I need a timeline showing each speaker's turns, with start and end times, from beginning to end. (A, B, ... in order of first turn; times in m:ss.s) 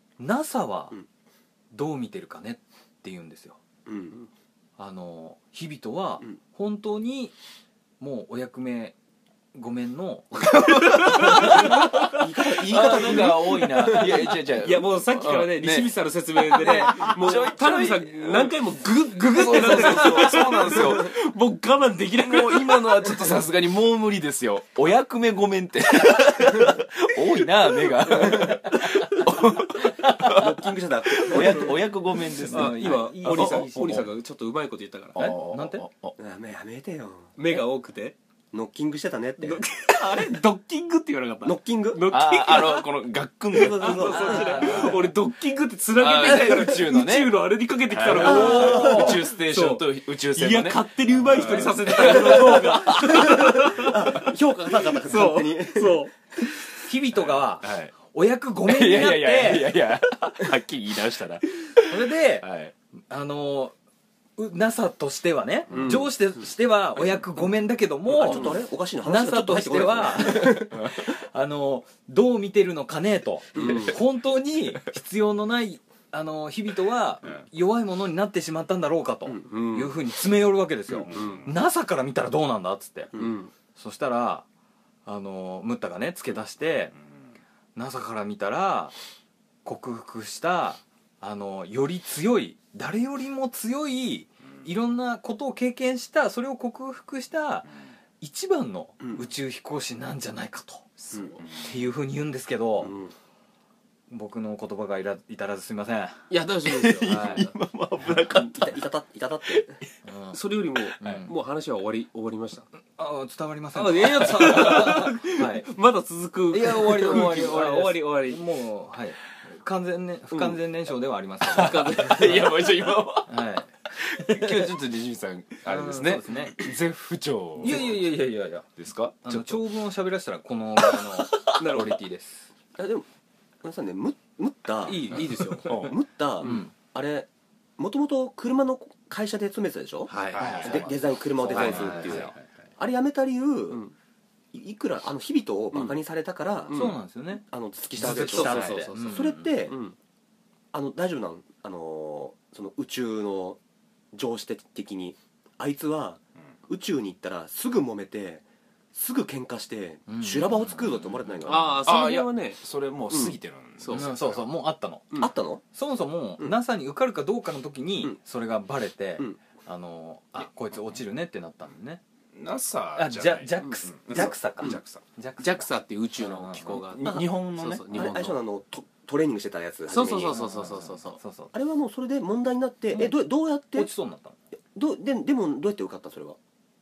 0:00.2-0:01.0 A
0:01.7-0:03.6 A
0:03.9-0:04.2 B
0:04.8-0:07.4 A
0:08.0-0:09.0 A
0:09.5-0:11.9 A
0:11.2-0:11.5 C
0:11.2-0:14.2 B
0:11.3-0:11.6 D
0:12.4-0:16.0 C
0:12.8-0:23.4 D
0:16.5-0:18.6 C
0:19.1-0:21.1 C
0:22.2-0:34.1 C
0:28.2-0:28.6 B
0:28.4-0:29.1 A
0:30.2-0:31.8 B
0:31.4-0:31.7 D
0:32.5-0:35.3 D
0:32.5-0:34.0 A
0:35.1-0:36.2 C
0:35.2-0:35.9 A
0:36.2-0:37.3 B
0:37.4-0:38.2 D
0:38.5-0:39.6 B
0:39.4-0:42.9 D
0:41.4-0:42.0 B
0:42.1-0:45.0 C
0:43.5-0:44.9 B
0:43.6-0:54.3 D
0:44.0-0:45.0 A
0:46.0-0:47.3 C
0:47.9-0:53.7 C
0:48.2-0:49.2 A
0:48.2-0:49.2 B
0:51.4-0:51.7 A
0:52.0-0:56.1 B
0:54.8-0:56.1 D
0:56.8-0:59.8 A
0:57.2-0:57.9 C
0:58.6-1:02.7 C
1:01.8-1:02.5 A
1:03.1-1:03.7 A
1:04.4-1:23.1 A
1:05.7-1:06.0 C
1:05.7-1:06.1 D
1:08.1-1:10.8 B
1:13.5-1:13.9 D
1:13.6-1:13.9 B
1:19.4-1:20.0 D
1:21.0-1:21.5 C
1:21.1-1:21.5 D
1:23.1-1:23.5 D
1:23.8-1:24.5 A
1:25.1-1:27.0 A
1:27.8-1:29.0 A
1:29.6-1:40.9 A
1:39.0-1:39.3 B
1:41.5-1:42.9 A
1:44.1-1:46.2 A
1:46.3-1:47.6 D
1:46.6-1:48.7 C
1:47.0-1:47.5 A
1:48.5-1:49.8 B
1:50.0-1:50.4 A
1:50.3-1:52.7 D
1:51.0-1:51.3 A
1:53.0-1:55.7 A
1:53.8-1:58.4 D
1:56.5-2:04.7 A
2:00.3-2:00.6 D
2:01.5-2:03.4 C
2:01.5-2:02.4 D
2:04.0-2:08.0 C
2:05.6-2:06.6 A
2:07.6-2:08.7 A
2:08.8-2:09.6 C
2:09.2-2:12.5 A
2:11.5-2:12.0 D
2:12.8-2:13.1 B
2:13.6-2:23.8 B
2:14.8-2:15.8 D
2:15.6-2:16.0 C
2:16.4-2:16.7 A
2:20.1-2:20.9 D
2:20.3-2:22.4 C
2:21.4-2:22.3 D
2:21.4-2:22.4 A
2:24.5-2:29.8 B
2:26.7-2:27.0 D
2:26.7-2:27.4 A
2:28.0-2:29.5 A
2:28.0-2:30.0 D
2:30.7-2:33.6 B
2:34.1-2:41.8 B
2:40.1-2:40.8 A
2:41.4-2:44.1 D
2:41.8-2:44.4 C
2:43.9-2:45.1 A
2:45.2-2:45.6 B
2:45.7-2:52.0 A
2:52.4-2:55.0 C
2:53.0-2:56.8 A
2:55.4-2:58.4 D
2:56.8-2:58.1 C
2:57.9-3:00.4 B
2:59.9-3:01.2 D
3:00.3-3:01.5 A
3:01.5-3:03.9 B
3:03.7-3:04.4 A
3:04.7-3:06.4 B